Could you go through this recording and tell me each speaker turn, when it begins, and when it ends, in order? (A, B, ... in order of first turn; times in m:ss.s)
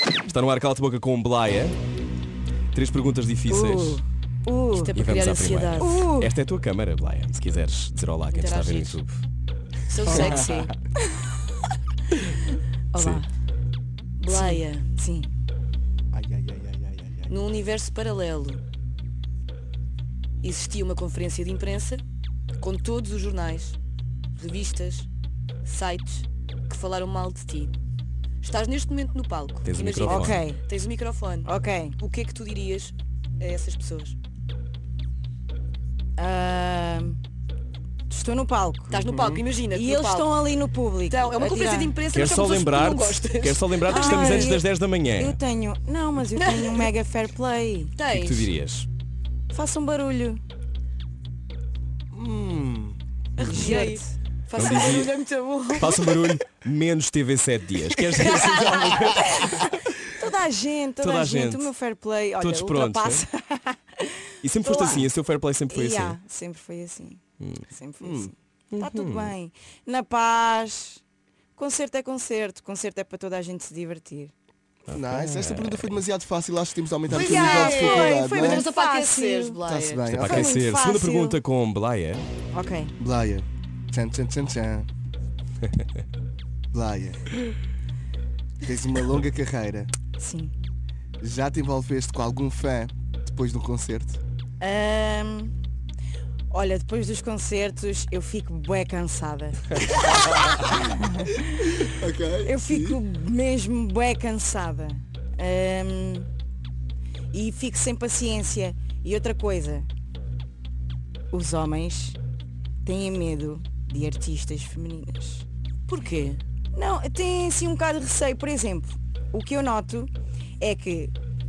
0:00.2-0:01.8 A
0:02.7-0:04.0 A
0:03.5-0:05.0 B
0:04.8-0:06.2 C
0:04.9-0:09.2 A
0:05.8-0:06.3 B
0:08.3-0:09.0 C
0:09.9-0:10.7 C
0:10.0-0:10.6 D
0:10.1-0:10.7 B
0:10.1-0:10.4 A
0:12.9-0:13.3 C
0:13.0-0:13.2 A
0:14.2-0:14.8 C
0:14.3-0:15.3 B
0:16.1-0:17.4 D
0:17.3-0:18.6 C
0:20.4-0:22.0 C
0:22.6-0:23.8 C
0:24.4-0:25.1 C
0:25.6-0:27.7 C
0:28.4-0:34.2 C
0:29.6-0:30.4 A
0:30.0-0:30.6 B
0:31.4-0:32.0 B
0:36.2-0:37.2 B
0:38.1-0:39.0 B
0:38.9-0:40.4 C
0:39.0-0:39.4 D
0:39.7-0:42.0 B
0:41.1-0:44.6 C
0:42.1-0:45.4 A
0:43.8-0:48.0 B
0:46.4-0:46.9 C
0:48.0-0:48.5 C
0:48.1-0:48.9 A
0:49.5-0:50.4 B
0:52.1-0:53.0 D
0:53.4-0:56.3 C
0:53.4-0:54.1 B
0:54.6-0:55.2 A
0:55.8-1:00.0 A
0:58.2-0:58.9 C
0:58.5-1:05.1 B
1:01.0-1:01.7 A
1:02.4-1:03.3 A
1:04.4-1:06.2 A
1:05.7-1:11.0 B
1:07.4-1:09.3 A
1:11.6-1:14.3 B
1:14.9-1:16.0 A
1:14.9-1:18.7 D
1:17.1-1:20.1 C
1:17.1-1:19.6 B
1:19.6-1:20.5 D
1:20.1-1:22.2 A
1:20.2-1:21.4 B
1:22.5-1:22.9 B
1:23.0-1:24.9 D
1:26.7-1:27.2 D
1:28.6-1:29.9 D
1:30.2-1:30.5 B
1:31.2-1:34.2 D
1:34.6-1:35.6 B
1:36.5-1:41.8 B
1:41.8-1:43.0 D
1:42.4-1:46.3 B
1:47.3-1:49.9 B
1:51.3-1:52.2 B
1:52.8-1:55.5 B
1:55.9-1:56.4 C
1:56.7-2:01.1 B